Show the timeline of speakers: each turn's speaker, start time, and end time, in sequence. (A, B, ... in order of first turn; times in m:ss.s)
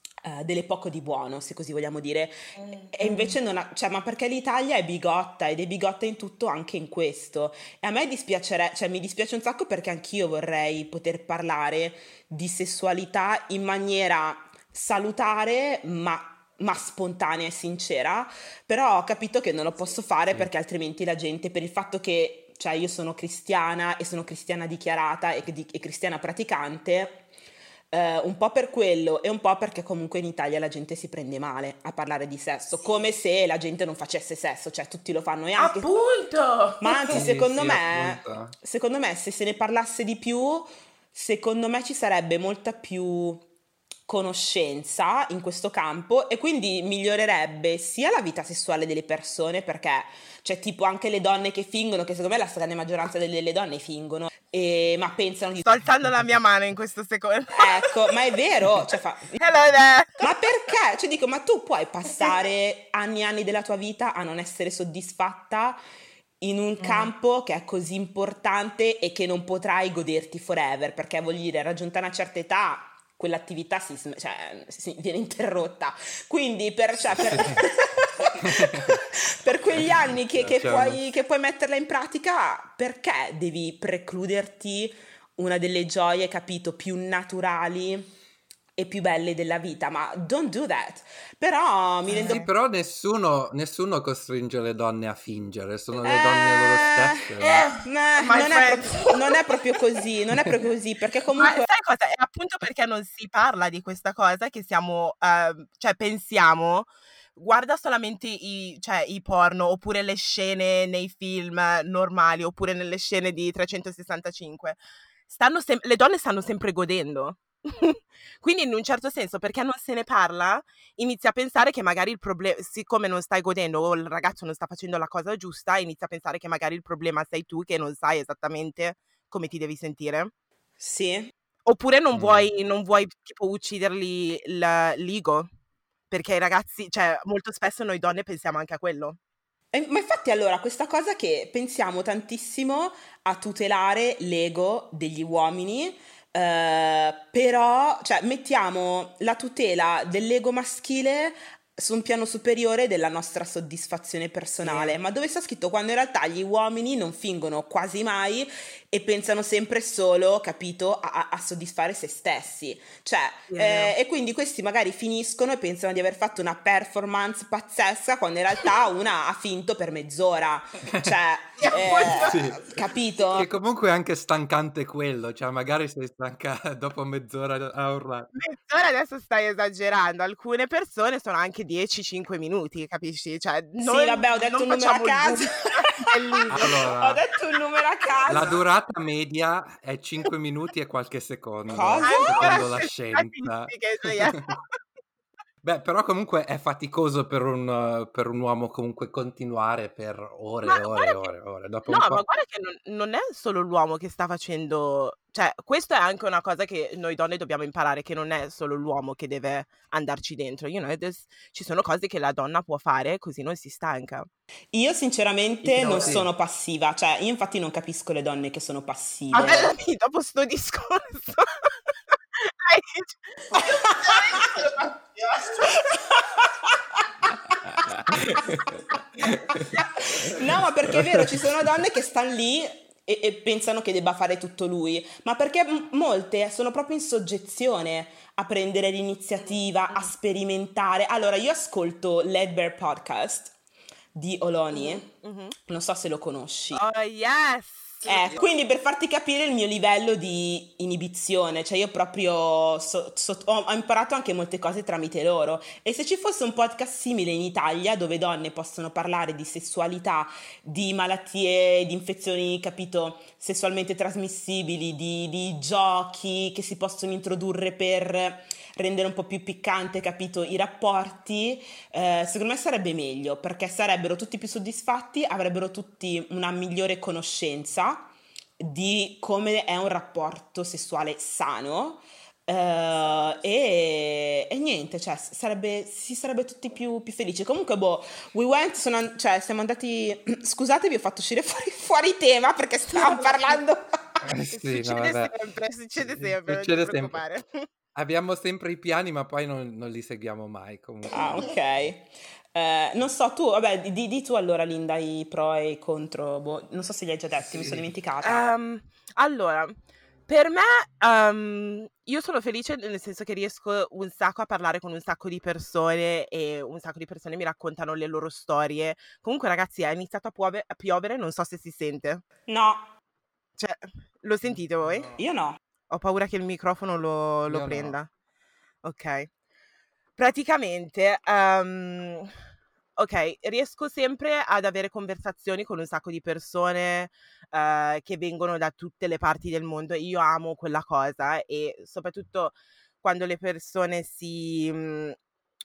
0:00.2-0:27.2 A
0:02.9-0:03.3 B
0:27.9-0:35.9 A
0:35.6-0:37.2 B
0:36.8-0:43.4 A
0:37.1-0:38.5 C
0:44.1-0:55.7 A
0:55.6-0:57.9 B
0:57.6-0:59.4 A
0:59.4-1:00.3 B
1:00.2-1:05.8 A
1:06.4-1:28.1 A
1:06.8-1:07.1 B
1:17.1-1:17.6 C
1:18.3-1:18.9 C
1:19.7-1:21.0 C
1:28.8-1:32.4 A
1:32.1-1:32.5 B
1:32.3-1:37.6 C
1:36.0-1:37.3 A
1:37.4-1:39.5 B
1:37.8-1:41.7 A
1:41.4-2:10.3 B
2:10.8-2:11.3 A
2:11.6-2:15.5 B
2:12.1-2:12.5 C
2:16.1-2:19.2 B
2:19.7-2:53.5 A
2:34.6-2:35.0 B
2:43.5-2:43.9 B
2:51.6-2:52.4 B
2:52.1-2:52.6 C
2:53.3-2:58.3 C
2:58.3-3:06.9 B
3:03.8-3:08.6 A
3:06.5-3:07.2 C
3:08.3-3:14.6 C
3:11.7-3:12.6 A
3:12.0-3:14.6 B
3:15.6-3:22.2 C
3:20.6-3:21.3 B
3:21.9-3:34.3 B
3:34.7-3:39.7 A
3:35.7-3:36.3 C
3:35.8-3:36.2 B
3:39.3-3:41.7 B
3:42.4-3:45.9 B
3:43.6-3:44.5 A
3:45.6-3:47.3 A
3:47.7-3:49.7 C
3:49.6-4:03.5 A
3:50.8-3:51.5 C
4:04.2-4:05.1 A
4:05.1-4:05.5 B
4:05.6-4:06.8 A
4:06.7-4:08.3 B
4:08.0-4:38.1 A
4:38.6-4:54.0 A
4:53.0-4:53.5 B
4:54.2-4:55.3 C
4:54.5-4:57.6 B
4:56.0-4:57.2 C
4:57.9-5:01.6 C
5:01.1-5:08.4 A
5:07.4-5:07.9 C
5:08.2-5:22.2 B
5:22.5-5:22.9 A
5:23.6-5:25.1 B
5:25.2-5:25.6 A
5:25.9-5:28.1 B
5:27.4-5:28.0 C
5:28.8-5:29.3 B
5:30.2-5:32.3 B
5:33.0-5:45.2 B